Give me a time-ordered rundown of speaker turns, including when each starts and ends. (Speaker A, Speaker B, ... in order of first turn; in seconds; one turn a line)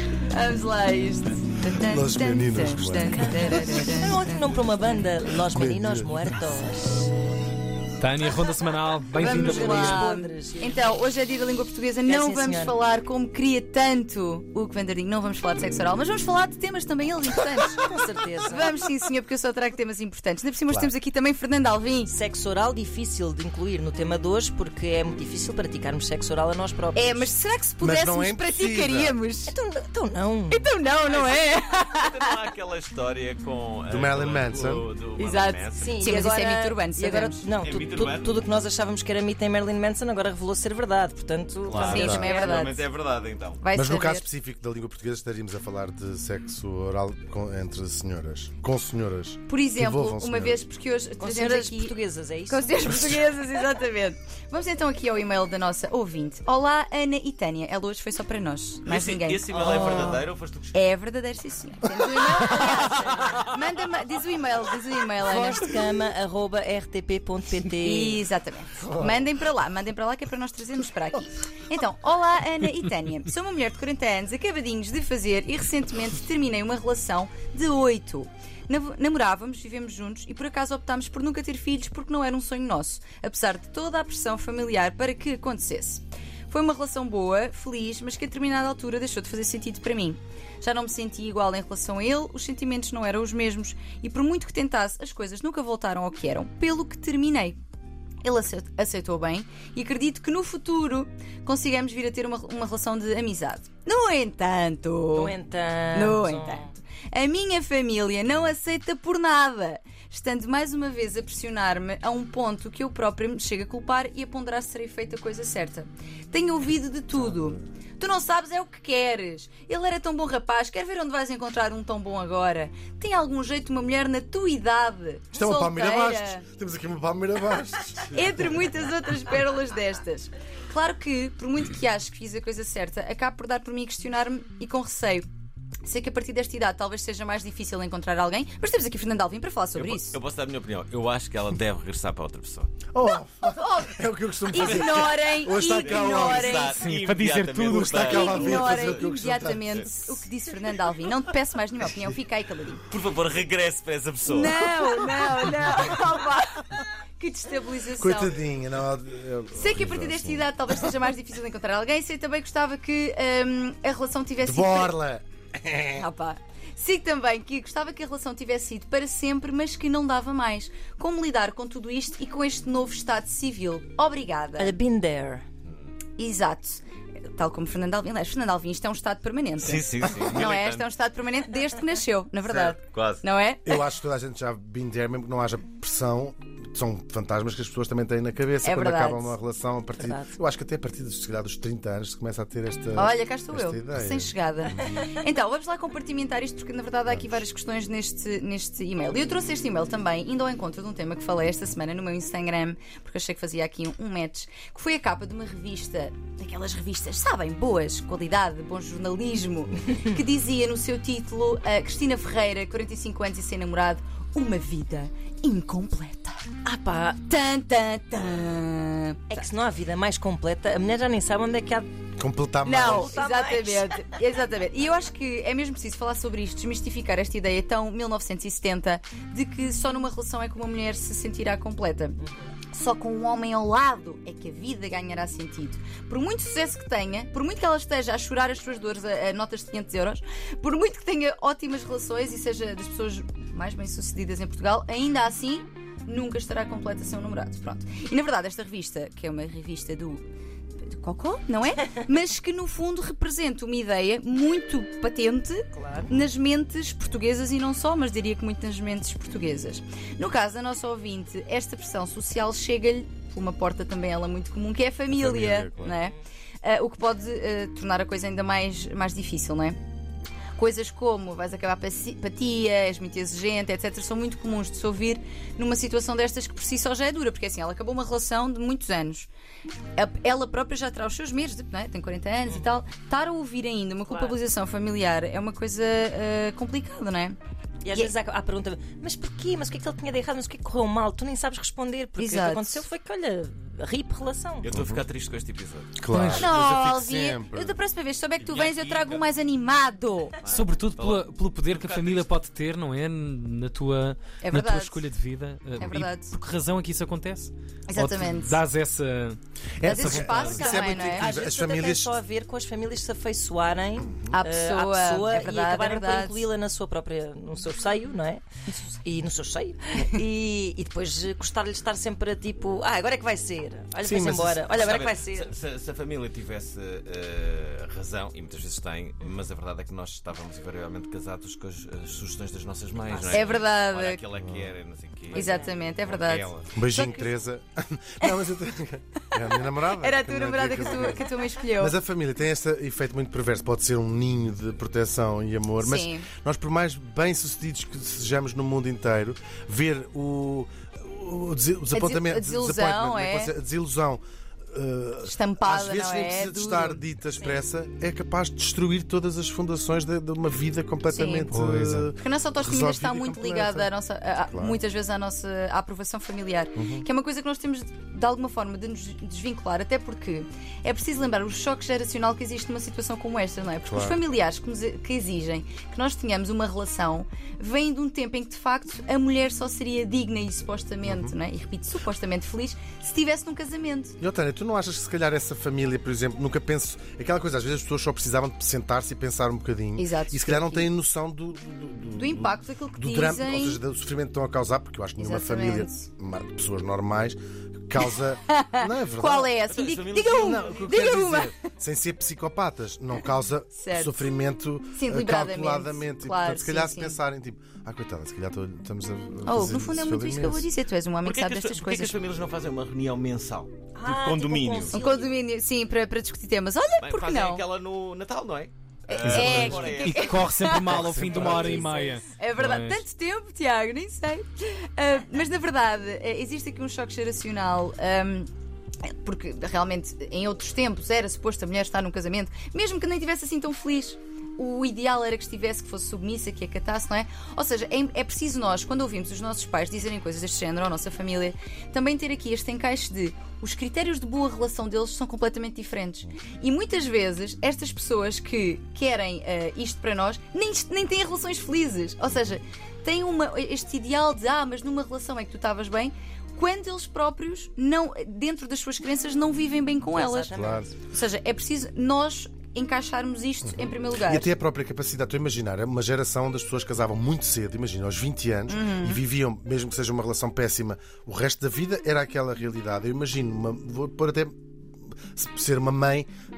Speaker A: 0.1-4.4
Speaker B: 1.8-3.6
Speaker C: 3.1-7.1
Speaker B: 5.4-6.3
Speaker D: 8.0-10.0
Speaker A: 9.1-17.8
Speaker C: 9.2-10.8
Speaker C: 12.0-12.8
Speaker C: 17.8-18.7
Speaker A: 18.4-22.1
Speaker B: 20.7-20.9
Speaker C: 22.1-27.3
Speaker A: 26.9-29.5
Speaker B: 27.8-29.2
Speaker C: 29.5-30.7
Speaker A: 30.5-32.4
Speaker E: 31.1-35.9
Speaker B: 33.9-34.9
Speaker A: 35.2-37.5
Speaker C: 35.8-42.6
Speaker E: 37.6-38.4
Speaker E: 41.7-43.6
Speaker A: 41.8-42.9
Speaker B: 41.9-42.3
Speaker A: 43.6-44.3
Speaker B: 43.7-50.6
Speaker A: 49.5-52.0
Speaker C: 51.2-53.1
Speaker A: 52.5-65.8
Speaker E: 58.9-60.9
Speaker C: 59.7-60.1
Speaker E: 62.4-63.4
Speaker C: 65.2-68.2
Speaker A: 67.8-97.6
Speaker A: 98.2-105.3
Speaker C: 105.1-106.7
Speaker A: 105.9-126.4
Speaker B: 125.3-128.5
Speaker A: 128.1-135.2
Speaker A: 135.8-140.2
Speaker E: 139.7-142.8
Speaker B: 142.9-146.6
Speaker A: 143.5-143.9
Speaker A: 144.5-146.8
Speaker E: 144.6-149.0
Speaker D: 146.7-148.1
Speaker B: 147.7-149.9
Speaker A: 148.0-152.8
Speaker E: 152.9-155.1
Speaker A: 154.2-158.4
Speaker B: 158.0-160.5
Speaker A: 159.5-165.0
Speaker B: 164.4-166.1
Speaker A: 165.9-174.8
Speaker C: 174.6-175.4
Speaker A: 176.2-176.8
Speaker A: 177.3-183.7
Speaker E: 179.6-180.8
Speaker E: 182.6-183.2
Speaker B: 183.6-194.8
Speaker A: 188.6-189.3
Speaker C: 190.0-190.3
Speaker A: 192.9-216.4
Speaker B: 197.1-197.4
Speaker C: 216.6-217.2
Speaker A: 217.2-219.4
Speaker C: 219.3-221.9
Speaker B: 222.2-223.1
Speaker A: 222.6-232.2
Speaker C: 222.7-224.0
Speaker C: 232.2-232.5
Speaker A: 232.7-250.2
Speaker A: 250.9-269.8
Speaker C: 255.7-256.1
Speaker B: 265.1-266.0
Speaker C: 265.9-266.2
Speaker A: 270.5-279.3
Speaker A: 279.9-287.4
Speaker C: 282.5-282.7
Speaker C: 284.1-284.4
Speaker C: 287.8-294.7
Speaker A: 292.2-292.9
Speaker E: 294.6-296.0
Speaker B: 294.7-295.0
Speaker B: 296.0-297.8
Speaker D: 296.1-296.5
Speaker A: 296.3-300.4
Speaker E: 298.4-299.3
Speaker E: 300.4-302.3
Speaker D: 300.5-310.7
Speaker A: 304.4-305.0
Speaker A: 305.8-306.3
Speaker A: 307.9-308.6
Speaker B: 309.8-312.2
Speaker A: 309.8-311.3
Speaker C: 310.9-325.5
Speaker B: 314.1-314.3
Speaker A: 314.3-316.4
Speaker B: 324.0-324.6
Speaker E: 324.7-336.7
Speaker C: 332.9-333.6
Speaker A: 333.3-334.2
Speaker C: 335.3-335.7
Speaker A: 335.3-337.4
Speaker B: 336.7-364.8
Speaker A: 339.9-342.0
Speaker A: 345.8-346.3
Speaker A: 351.9-353.5
Speaker A: 355.2-357.6
Speaker A: 361.1-361.5
Speaker D: 361.5-362.1
Speaker A: 362.1-384.2
Speaker B: 366.8-367.0
Speaker B: 373.9-374.2
Speaker B: 381.0-381.3
Speaker B: 384.2-399.5
Speaker A: 390.0-390.9
Speaker A: 392.1-393.8
Speaker A: 395.2-396.1
Speaker A: 398.5-401.6
Speaker E: 399.7-400.9
Speaker B: 400.3-410.7
Speaker A: 403.7-404.3
Speaker A: 404.9-407.2
Speaker A: 409.4-412.2
Speaker E: 411.2-415.0
Speaker C: 413.9-415.3
Speaker A: 414.9-417.6
Speaker E: 417.0-420.7
Speaker A: 419.1-428.5
Speaker D: 419.2-423.0
Speaker B: 419.4-419.7
Speaker B: 420.8-421.9
Speaker A: 429.0-464.5
Speaker C: 460.1-460.9
Speaker B: 460.5-460.9
Speaker B: 463.6-474.6
Speaker A: 468.7-469.2
Speaker B: 475.3-476.3